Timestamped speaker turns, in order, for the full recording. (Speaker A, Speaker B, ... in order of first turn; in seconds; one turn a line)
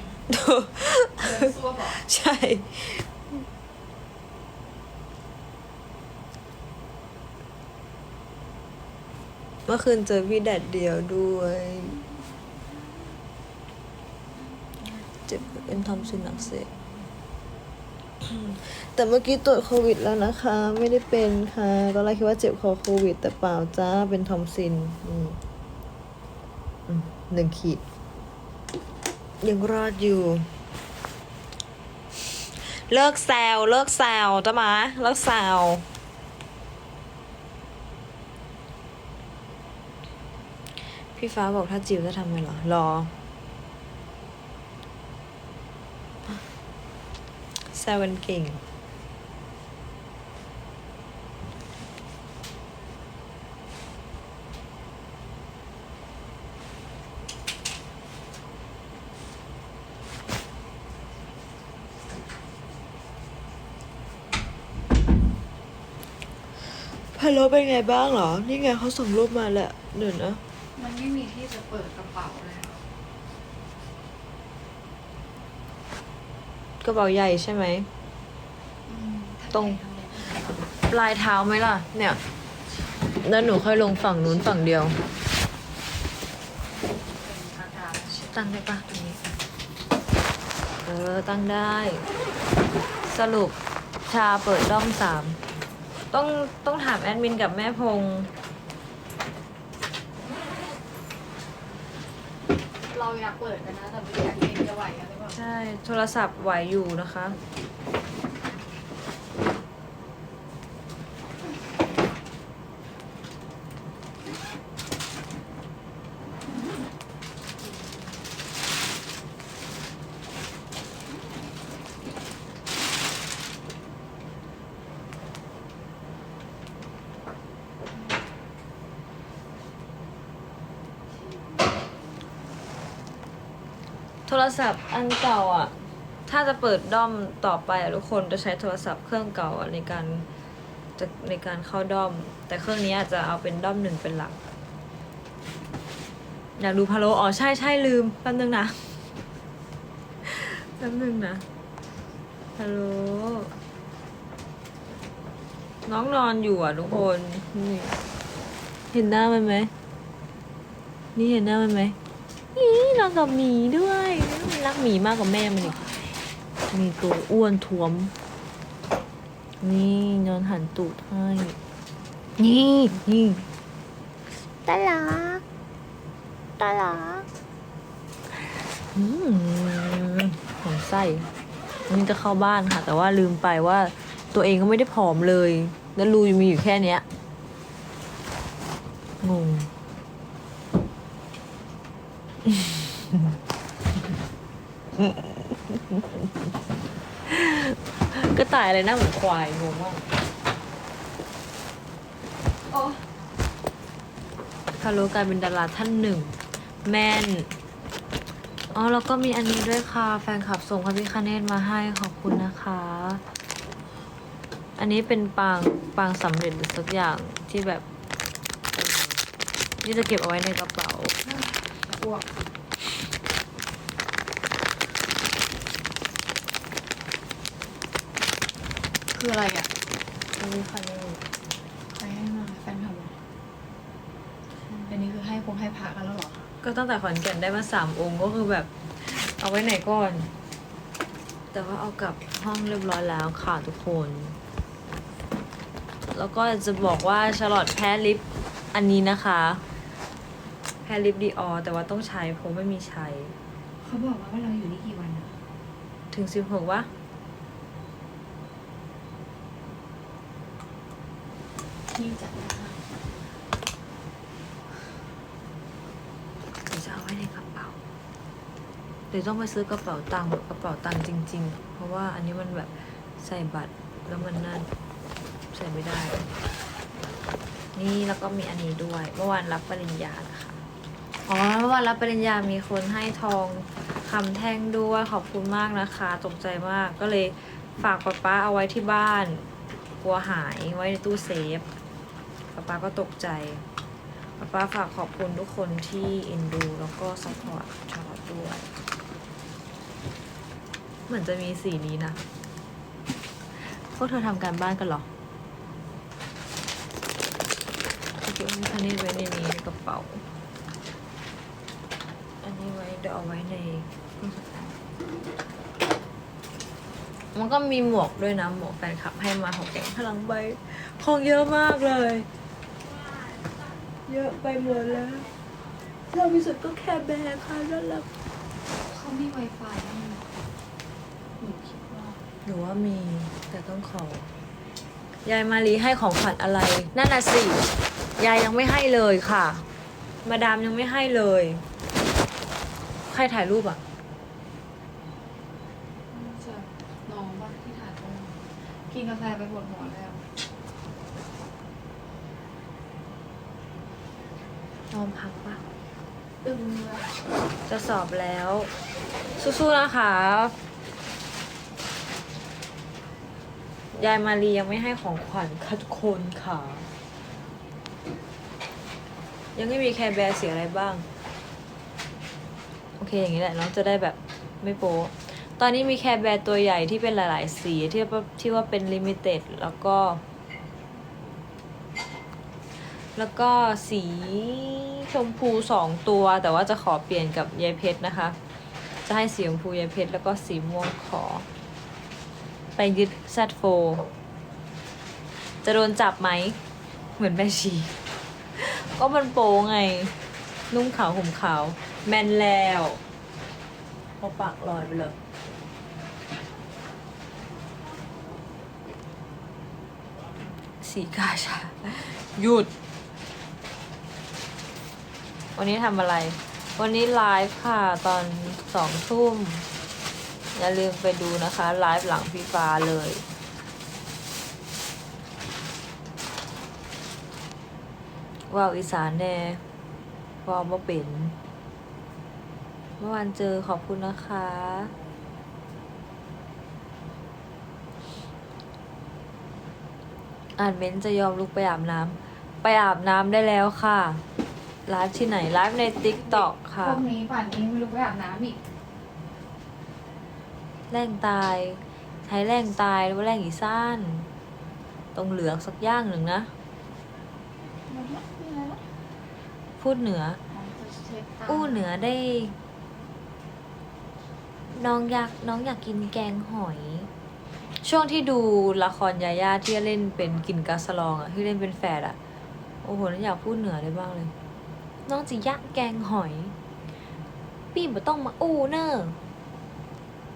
Speaker A: 0.3-3.0
Speaker B: 1.2-2.0
Speaker A: 9.7-12.0
Speaker B: 14.8-17.0
Speaker A: 15.3-16.7
Speaker A: 18.2-25.4
Speaker A: 26.9-27.8
Speaker A: 29.4-30.5
Speaker A: 32.6-35.8
Speaker A: 41.1-43.1
Speaker A: 47.7-48.6
Speaker A: 66.7-70.4
Speaker B: 70.8-72.8
Speaker A: 76.8-77.9
Speaker B: 78.9-80.7
Speaker A: 79.5-79.8
Speaker A: 80.9-82.2
Speaker B: 82.6-85.2
Speaker A: 83.2-85.0
Speaker B: 86.8-88.3
Speaker A: 88.1-89.2
Speaker A: 90.8-92.1
Speaker A: 93.0-93.6
Speaker A: 94.1-95.4
Speaker A: 96.1-98.3
Speaker B: 102.9-105.4
Speaker A: 105.3-107.4
Speaker A: 134.3-135.7
Speaker A: 136.3-140.3
Speaker A: 141.0-144.4
Speaker A: 146.6-149.0
Speaker A: 150.2-151.4
Speaker A: 152.6-153.5
Speaker A: 155.8-158.0
Speaker A: 158.9-159.7
Speaker A: 161.2-162.0
Speaker A: 162.5-165.9
Speaker A: 166.7-168.1
Speaker A: 169.6-171.6
Speaker A: 172.4-173.5
Speaker A: 174.6-175.4
Speaker A: 176.6-177.3
Speaker A: 178.8-181.3
Speaker A: 181.9-187.1
Speaker A: 189.2-189.7
Speaker A: 192.4-193.4
Speaker A: 195.0-196.3
Speaker A: 197.3-200.0
Speaker B: 202.7-203.0
Speaker A: 204.8-206.3
Speaker A: 206.8-207.5
Speaker A: 208.7-213.2
Speaker A: 214.8-217.8
Speaker A: 218.8-219.2
Speaker A: 219.8-221.2
Speaker B: 221.2-222.3
Speaker B: 229.1-229.7
Speaker A: 230.3-231.2
Speaker B: 231.9-233.2
Speaker A: 234.6-235.0
Speaker B: 234.9-236.5
Speaker A: 236.6-240.3
Speaker A: 241.5-244.4
Speaker A: 246.1-249.6
Speaker A: 250.8-253.3
Speaker B: 253.8-255.4
Speaker A: 256.1-256.9
Speaker B: 261.9-262.9
Speaker A: 266.7-267.8
Speaker A: 269.1-274.7
Speaker A: 275.5-276.2
Speaker A: 277.7-280.6
Speaker A: 281.2-289.5
Speaker A: 290.0-291.7
Speaker A: 292.5-293.6
Speaker A: 294.4-298.7
Speaker A: 301.1-302.2
Speaker A: 303.6-305.1
Speaker A: 308.2-310.2
Speaker A: 312.4-314.8
Speaker A: 317.3-322.3
Speaker A: 324.1-325.3
Speaker A: 326.1-328.1
Speaker B: 328.8-330.3
Speaker B: 331.4-332.2
Speaker A: 332.4-334.3
Speaker A: 335.2-339.6
Speaker A: 340.2-341.6
Speaker A: 343.1-343.8
Speaker B: 346.1-350.3
Speaker A: 354.9-355.6
Speaker B: 356.4-357.1
Speaker A: 357.6-358.7
Speaker A: 359.4-360.6
Speaker A: 363.9-366.9
Speaker A: 369.6-371.1
Speaker A: 373.0-380.2
Speaker A: 382.9-388.4
Speaker A: 389.1-391.5
Speaker A: 392.8-394.1
Speaker A: 395.4-396.6
Speaker A: 397.2-397.9
Speaker A: 398.5-400.1
Speaker A: 400.7-403.0
Speaker A: 404.2-405.1
Speaker A: 410.8-412.7
Speaker A: 415.6-419.6
Speaker A: 420.6-423.2
Speaker A: 428.5-429.6
Speaker A: 430.4-431.4
Speaker A: 433.0-434.9
Speaker A: 440.6-444.2
Speaker A: 444.9-447.0
Speaker B: 446.1-448.6
Speaker A: 450.9-454.3
Speaker A: 455.1-456.5
Speaker B: 457.9-458.8
Speaker A: 459.8-460.4
Speaker B: 460.5-461.9
Speaker A: 461.5-462.5
Speaker A: 464.7-467.1
Speaker A: 467.8-472.2
Speaker A: 472.8-474.3
Speaker A: 475.1-476.5
Speaker A: 477.7-479.2